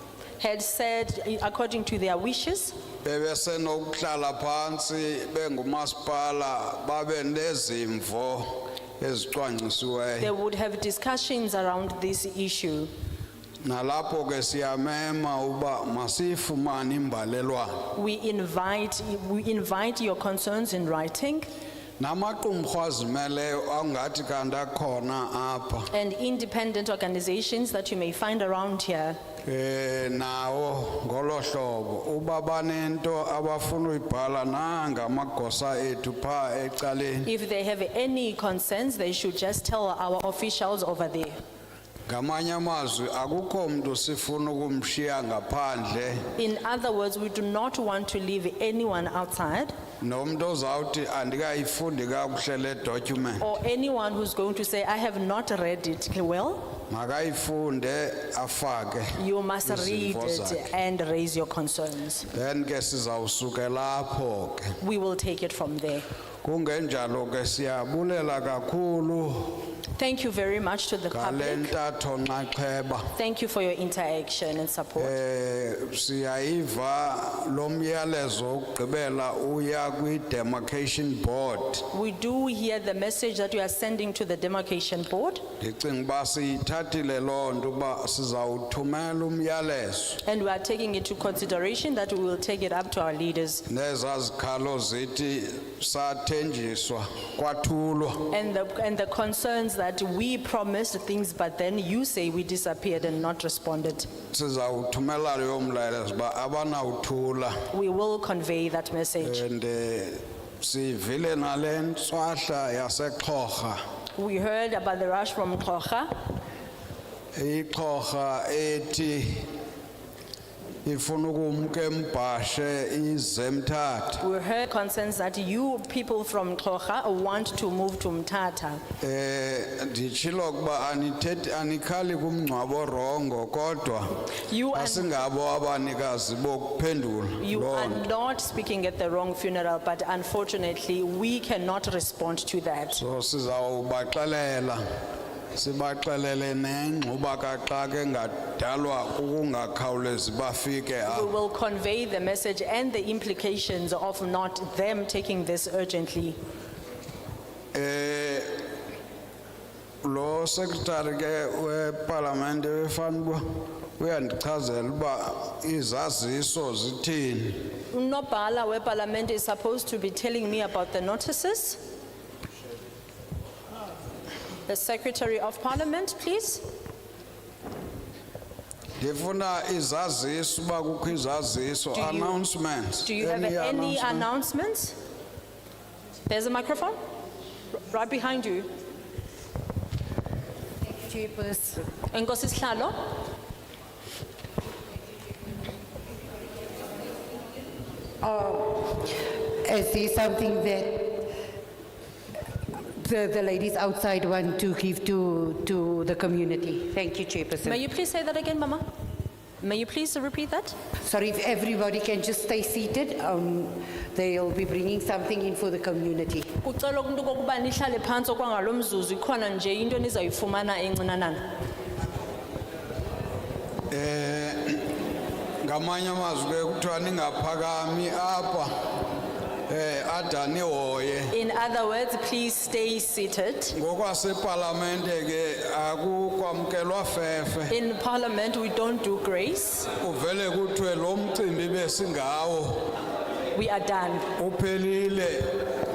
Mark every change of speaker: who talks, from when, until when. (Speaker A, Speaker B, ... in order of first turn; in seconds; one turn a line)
Speaker A: 0.4-2.8
Speaker B: 3.0-10.3
Speaker A: 10.2-12.9
Speaker B: 13.6-17.9
Speaker A: 17.9-21.5
Speaker B: 22.0-25.9
Speaker A: 25.9-29.2
Speaker B: 29.4-37.3
Speaker A: 37.2-41.4
Speaker B: 42.1-46.3
Speaker A: 46.4-49.7
Speaker B: 50.0-53.5
Speaker A: 53.4-56.8
Speaker B: 56.9-60.7
Speaker A: 59.2-62.3
Speaker B: 62.3-64.8
Speaker A: 64.8-66.1
Speaker B: 66.4-69.7
Speaker A: 70.0-71.7
Speaker B: 71.1-73.1
Speaker A: 73.2-75.2
Speaker B: 75.0-81.9
Speaker A: 81.9-85.4
Speaker B: 85.6-90.2
Speaker A: 90.2-93.6
Speaker B: 93.7-98.3
Speaker A: 98.3-104.1
Speaker B: 104.3-107.6
Speaker A: 107.7-109.4
Speaker B: 109.2-113.8
Speaker A: 114.2-116.1
Speaker B: 117.3-119.5
Speaker B: 120.8-124.2
Speaker A: 124.2-128.8
Speaker B: 129.0-138.1
Speaker A: 134.4-135.1
Speaker A: 137.4-143.0
Speaker B: 142.9-144.8
Speaker B: 145.5-151.3
Speaker A: 151.1-156.4
Speaker B: 157.7-158.6
Speaker B: 160.0-167.7
Speaker A: 167.9-171.8
Speaker A: 174.7-176.6
Speaker B: 179.0-184.3
Speaker A: 181.9-182.4
Speaker A: 183.0-185.0
Speaker A: 186.3-187.0
Speaker A: 187.8-188.7
Speaker C: 190.8-191.8
Speaker A: 192.1-193.1
Speaker C: 198.2-201.3
Speaker C: 202.9-207.8
Speaker A: 207.6-208.8
Speaker A: 209.6-210.8
Speaker C: 211.0-216.5
Speaker A: 216.6-221.4
Speaker B: 223.9-224.8
Speaker B: 225.6-228.7
Speaker B: 229.7-231.3
Speaker A: 231.3-233.8
Speaker B: 233.7-237.7
Speaker A: 237.7-239.9
Speaker B: 240.0-242.9
Speaker A: 243.5-244.3
Speaker B: 244.3-245.7